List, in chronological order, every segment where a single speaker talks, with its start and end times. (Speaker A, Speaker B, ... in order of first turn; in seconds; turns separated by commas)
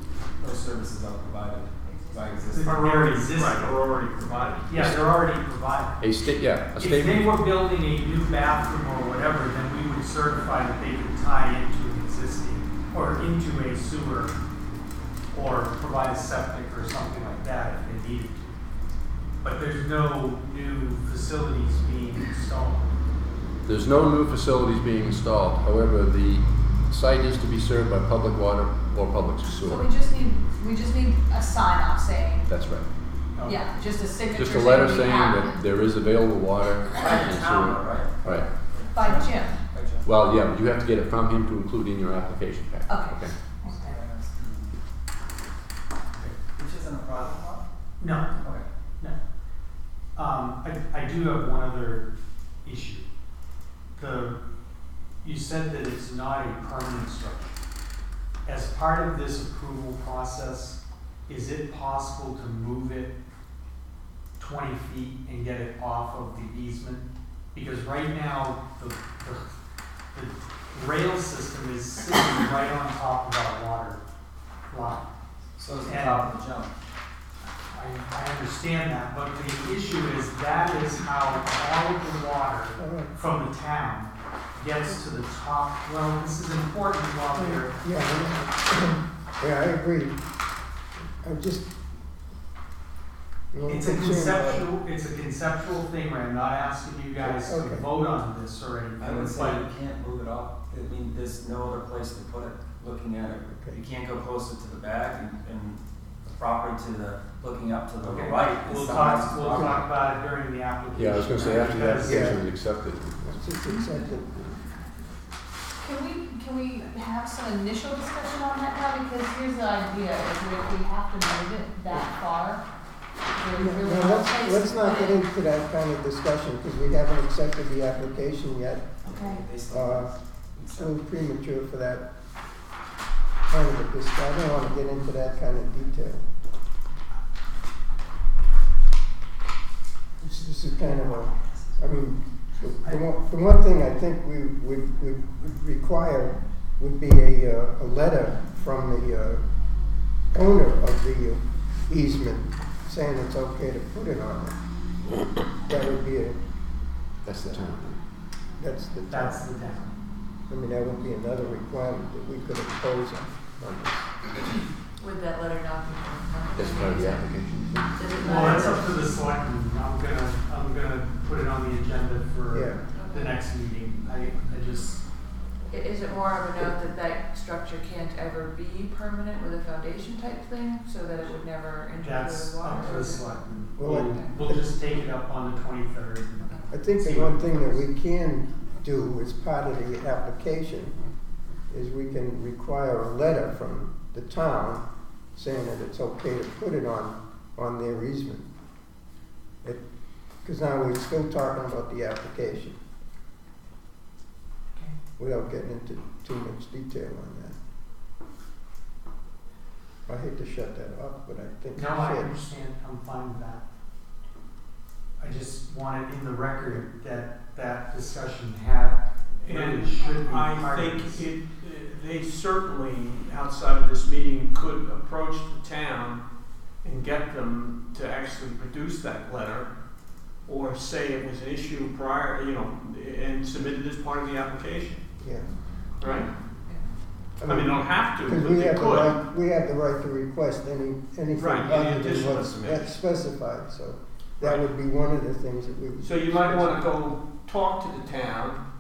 Speaker A: 0.4-2.8, Speaker B: 2.5-3.7, Speaker C: 2.7-4.8, Speaker B: 4.7-6.0, Speaker D: 4.8-5.0, Speaker D: 6.0-7.4, Speaker B: 6.8-14.3, Speaker B: 15.3-18.6, Speaker B: 19.4-22.9, Speaker D: 23.6-29.9, Speaker E: 29.6-32.5, Speaker D: 32.5-32.9, Speaker B: 33.4-33.6, Speaker E: 33.4-35.6, Speaker D: 34.3-38.5, Speaker A: 37.0-40.1, Speaker E: 38.9-39.6, Speaker D: 40.0-43.4, Speaker E: 42.9-44.0, Speaker A: 43.6-44.7, Speaker A: 46.3-47.6, Speaker B: 48.0-48.4, Speaker A: 48.4-48.6, Speaker B: 50.1-52.1, Speaker B: 52.6-53.1, Speaker B: 54.0-54.4, Speaker B: 55.2-57.6, Speaker B: 58.4-63.1, Speaker B: 64.4-69.4, Speaker B: 70.1-74.0, Speaker B: 74.7-75.0, Speaker A: 75.6-76.7, Speaker B: 75.8-76.3, Speaker B: 77.7-88.4, Speaker F: 82.8-83.1, Speaker F: 87.3-90.2, Speaker F: 91.2-91.7, Speaker F: 93.5-94.7, Speaker B: 93.7-99.6, Speaker F: 97.2-97.8, Speaker A: 99.0-109.9, Speaker F: 103.4-103.8, Speaker B: 108.0-112.3, Speaker D: 110.9-113.5, Speaker F: 112.0-112.4, Speaker F: 113.2-114.3, Speaker E: 115.8-122.6, Speaker E: 123.3-125.2, Speaker F: 123.5-128.9, Speaker E: 129.0-129.5, Speaker A: 129.0-131.0, Speaker F: 129.7-130.1, Speaker F: 130.7-132.1, Speaker F: 133.5-136.2, Speaker F: 140.2-149.4, Speaker F: 150.3-154.6, Speaker F: 155.7-156.4, Speaker D: 157.2-158.0, Speaker F: 158.6-159.5, Speaker B: 159.1-159.9, Speaker F: 160.5-164.1, Speaker G: 165.0-167.2, Speaker D: 166.5-167.9, Speaker G: 167.9-169.0, Speaker B: 168.2-175.0, Speaker F: 172.5-172.8, Speaker G: 172.9-173.4, Speaker G: 175.7-183.4, Speaker B: 182.0-187.8, Speaker F: 183.8-184.7, Speaker G: 184.1-184.4, Speaker F: 186.7-191.0, Speaker F: 191.7-198.4, Speaker F: 200.4-202.8, Speaker F: 205.2-207.6, Speaker F: 210.1-212.3, Speaker B: 211.7-213.6, Speaker B: 215.2-221.3, Speaker C: 219.4-226.2, Speaker C: 226.8-229.7, Speaker C: 230.4-235.0, Speaker F: 235.2-235.5, Speaker C: 236.0-236.3, Speaker F: 237.4-246.8, Speaker C: 237.4-239.2, Speaker C: 241.3-243.0, Speaker C: 246.0-248.6